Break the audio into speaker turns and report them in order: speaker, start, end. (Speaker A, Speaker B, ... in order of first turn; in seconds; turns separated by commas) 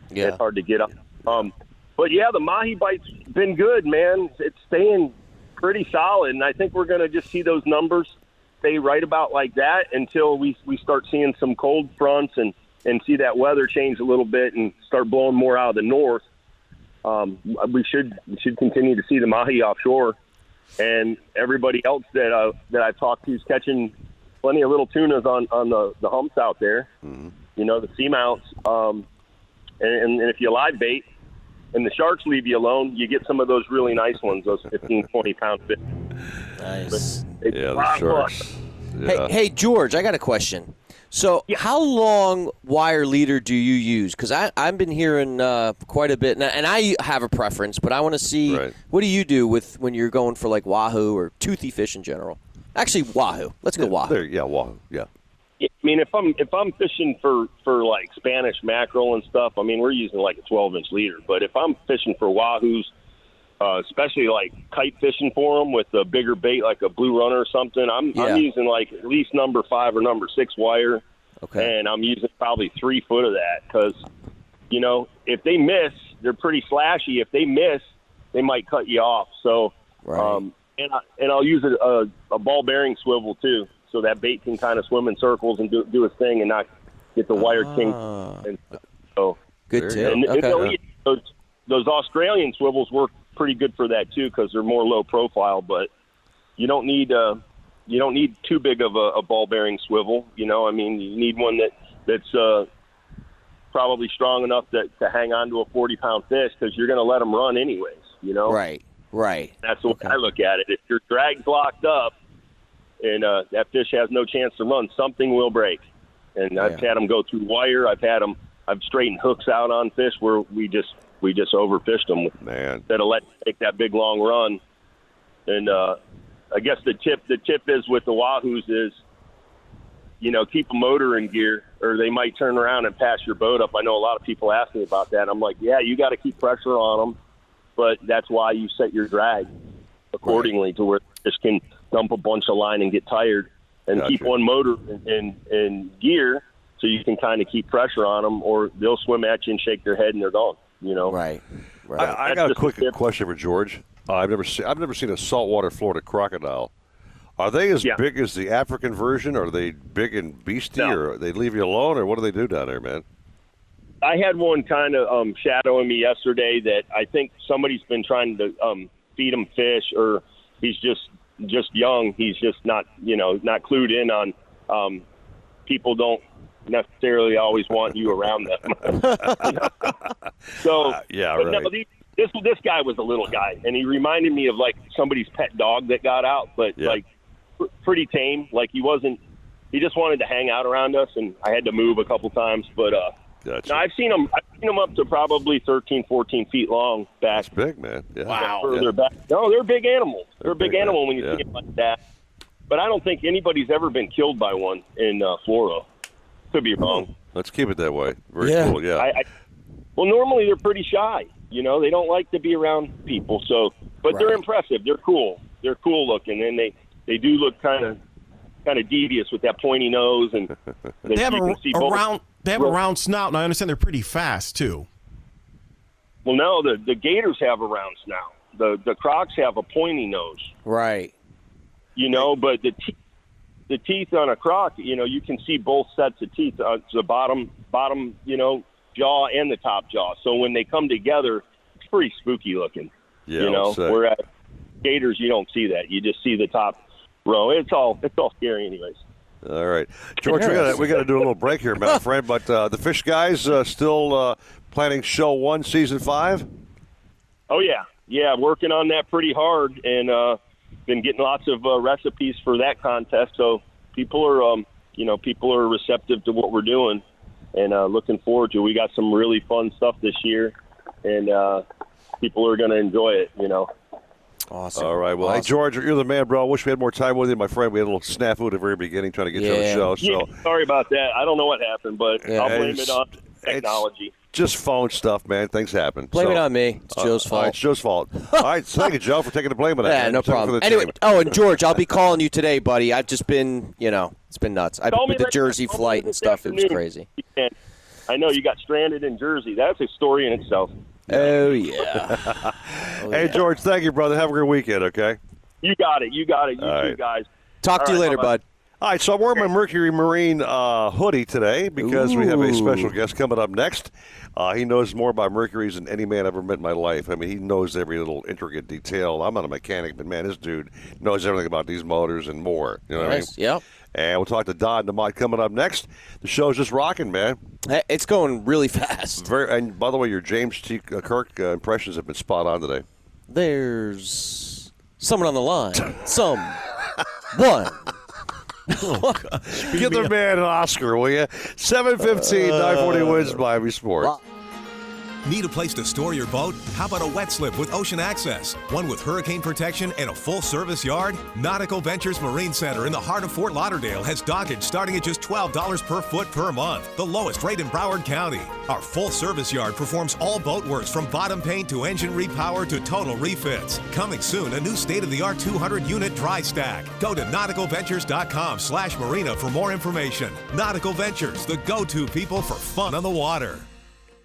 Speaker A: 0.1-0.4, Speaker B: 0.2-16.2, Speaker B: 17.0-20.2, Speaker B: 20.8-26.9, Speaker C: 27.0-27.4, Speaker B: 27.6-29.1, Speaker B: 29.8-31.1, Speaker B: 31.7-35.8, Speaker A: 36.6-37.4, Speaker B: 36.9-38.3, Speaker C: 37.5-39.3, Speaker A: 39.0-54.2, Speaker C: 48.5-48.7, Speaker C: 53.8-55.1, Speaker B: 55.6-62.9, Speaker B: 63.6-71.0, Speaker A: 68.1-68.5, Speaker A: 71.4-71.7, Speaker B: 71.6-74.0, Speaker B: 74.7-88.6, Speaker A: 80.0-80.4, Speaker A: 87.3-88.5, Speaker A: 89.7-90.7, Speaker C: 89.7-90.7, Speaker B: 90.0-95.9, Speaker B: 96.6-102.7, Speaker B: 103.7-108.6, Speaker A: 108.5-110.2, Speaker B: 109.6-112.1, Speaker B: 113.0-115.8, Speaker B: 116.4-122.3, Speaker A: 116.6-116.8, Speaker C: 122.4-122.8, Speaker B: 122.9-124.6, Speaker B: 125.5-126.0, Speaker B: 126.5-129.0, Speaker B: 130.2-137.2, Speaker B: 137.8-139.5, Speaker B: 140.2-151.2, Speaker C: 143.9-144.3, Speaker A: 151.1-152.2, Speaker C: 152.0-156.7, Speaker B: 152.1-152.9, Speaker C: 157.4-163.1, Speaker B: 164.0-175.0, Speaker B: 175.7-179.7, Speaker A: 179.0-179.4, Speaker C: 179.4-179.9, Speaker B: 180.6-187.0, Speaker C: 180.7-181.7, Speaker B: 187.6-189.2, Speaker B: 189.7-193.1, Speaker C: 193.4-193.8, Speaker B: 193.7-197.5, Speaker C: 197.3-198.9, Speaker A: 198.3-198.7, Speaker B: 198.3-202.0, Speaker C: 200.4-201.4, Speaker B: 202.7-205.9, Speaker B: 206.5-207.1, Speaker C: 206.8-209.1, Speaker A: 208.4-208.8, Speaker B: 208.9-209.2, Speaker B: 210.0-218.0, Speaker A: 214.1-214.4, Speaker B: 218.7-220.5, Speaker B: 221.1-222.0, Speaker D: 221.1-224.9, Speaker B: 226.3-230.5, Speaker A: 230.7-231.1, Speaker B: 232.0-232.9, Speaker B: 233.7-244.2, Speaker C: 243.3-244.0, Speaker B: 244.8-249.0, Speaker C: 249.4-256.5, Speaker A: 250.2-251.1, Speaker B: 250.7-251.1, Speaker B: 257.5-267.0, Speaker B: 267.6-271.6, Speaker B: 272.2-273.7, Speaker A: 274.5-275.5, Speaker C: 274.8-280.3, Speaker A: 279.3-279.9, Speaker B: 280.0-284.1, Speaker C: 282.3-291.8, Speaker A: 282.3-282.6, Speaker A: 286.1-287.6, Speaker A: 289.8-297.1, Speaker B: 294.9-297.5, Speaker B: 298.1-300.7, Speaker A: 301.1-302.4, Speaker C: 301.1-305.2, Speaker A: 302.9-303.4, Speaker B: 305.6-308.4, Speaker C: 306.6-307.0, Speaker A: 307.6-308.4, Speaker C: 308.8-323.3, Speaker A: 311.8-312.9, Speaker A: 323.0-323.6, Speaker C: 323.9-327.4, Speaker A: 327.7-329.3, Speaker C: 329.2-332.9, Speaker A: 333.3-336.6, Speaker A: 337.3-337.9, Speaker D: 338.7-340.1, Speaker A: 339.0-339.2, Speaker C: 339.5-344.2, Speaker A: 342.0-343.4, Speaker E: 345.2-373.7